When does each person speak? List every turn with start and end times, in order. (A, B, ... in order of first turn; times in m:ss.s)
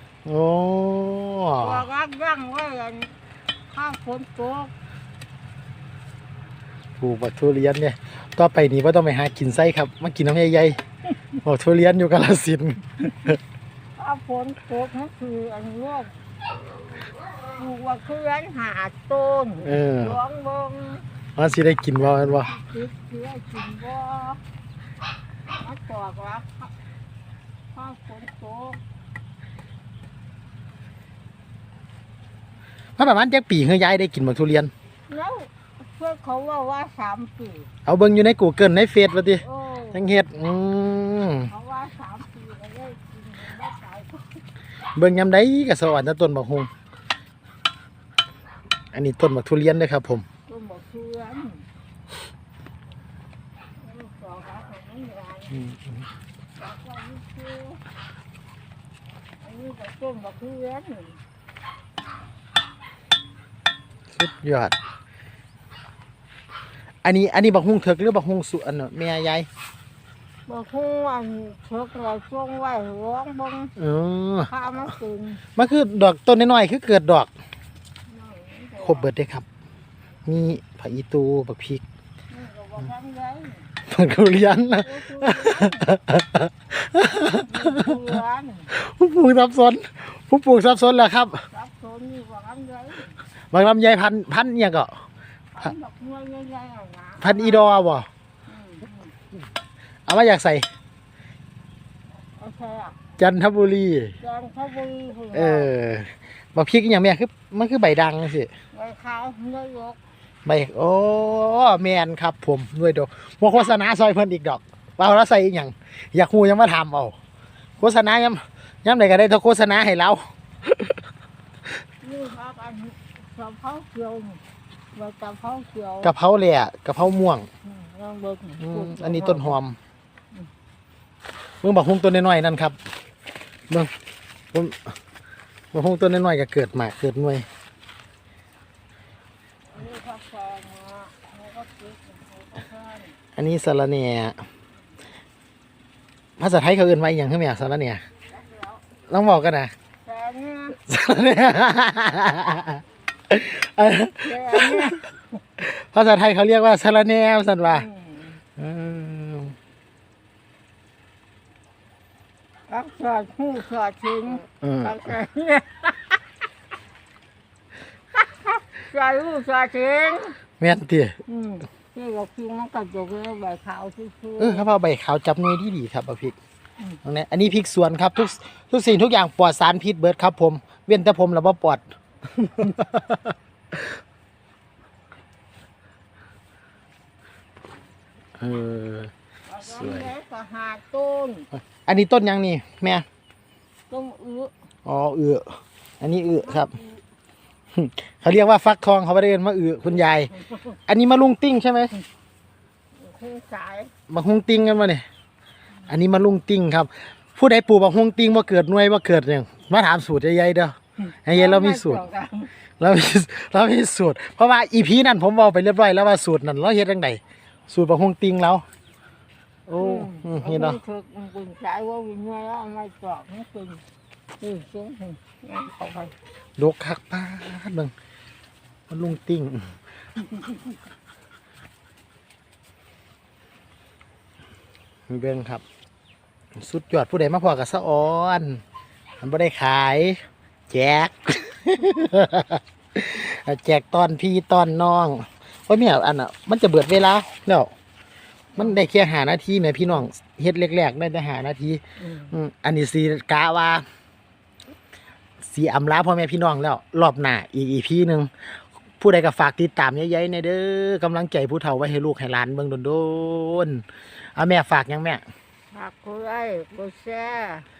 0:00.2-0:01.8 A
0:01.6-0:03.2 B
0:03.7-0:04.7 B
0:07.0-0:10.8 A
0:11.4-0:13.4 A
0:14.0-0:16.1 B
0:17.5-0:21.1 B
0:19.6-0:20.2 A
0:21.4-0:22.5 A
0:22.2-0:24.4 B
0:25.6-0:26.7 B
0:27.7-0:28.8 B
0:33.0-0:34.7 A
0:35.1-0:37.7 B
0:37.8-0:41.5 A
0:39.4-0:40.0 B
0:41.5-0:44.4 B
0:45.0-0:46.7 A
0:48.9-0:50.2 A
0:50.5-0:51.6 B
0:53.8-0:55.7 B
0:55.5-0:56.0 A
0:56.6-0:57.8 B
0:59.4-1:01.2 B
1:04.1-1:04.8 A
1:07.0-1:09.5 A
1:10.5-1:13.7 B
1:13.8-1:14.5 A
1:14.5-1:15.4 B
1:15.6-1:17.3 A
1:18.1-1:19.1 B
1:18.8-1:19.4 A
1:20.2-1:21.8 A
1:22.3-1:23.7 B
1:23.9-1:28.2 A
1:24.8-1:25.9 B
1:27.5-1:28.7 B
1:28.7-1:31.4 A
1:31.5-1:33.2 B
1:33.5-1:35.0 A
1:35.5-1:37.6 B
1:37.2-1:38.1 A
1:38.5-1:39.1 B
1:40.1-1:40.7 A
1:42.4-1:43.0 B
1:43.2-1:44.1 A
1:44.2-1:45.7 B
1:45.3-1:48.5 A
1:48.7-1:50.0 B
1:50.4-1:57.1 A
1:57.8-2:01.0 A
2:02.0-2:04.4 B
2:04.9-2:06.1 B
2:06.0-2:07.5 A
2:07.6-2:09.6 B
2:08.6-2:09.8 A
2:11.6-2:12.8 A
2:14.5-2:14.9 A
2:15.7-2:17.5 A
2:19.7-2:23.2 B
2:23.4-2:24.4 A
2:26.4-2:28.0 A
2:28.4-2:28.8 B
2:29.1-2:29.7 A
2:30.0-2:30.8 B
2:30.9-2:35.0 A
2:34.2-2:35.1 B
2:35.6-2:37.9 A
2:37.6-2:38.4 B
2:38.6-2:39.6 A
2:42.7-2:46.2 B
2:44.6-2:45.0 A
2:48.1-2:50.4 B
2:50.6-2:51.2 A
2:51.2-2:54.6 B
2:54.4-2:56.4 A
2:57.0-3:01.8 A
3:02.4-3:03.3 A
3:08.4-3:09.1 A
3:09.5-3:11.5 B
3:09.6-3:10.1 A
3:11.8-3:13.0 A
3:13.9-3:14.5 B
3:14.8-3:16.7 A
3:16.5-3:17.0 B
3:17.7-3:20.3 A
3:20.9-3:21.9 A
3:23.0-3:23.9 B
3:24.1-3:25.0 A
3:25.9-3:32.0 A
3:31.0-3:32.5 B
3:32.8-3:38.6 A
3:39.7-3:40.8 A
3:39.8-3:43.8 B
3:44.4-3:46.1 B
3:46.6-3:47.9 A
3:48.9-3:49.7 A
3:55.1-3:55.6 A
3:56.6-3:58.6 A
3:59.2-4:07.7 A
4:08.6-4:13.8 A
4:12.0-4:12.3 B
4:15.4-4:25.2 A
4:25.7-4:27.6 B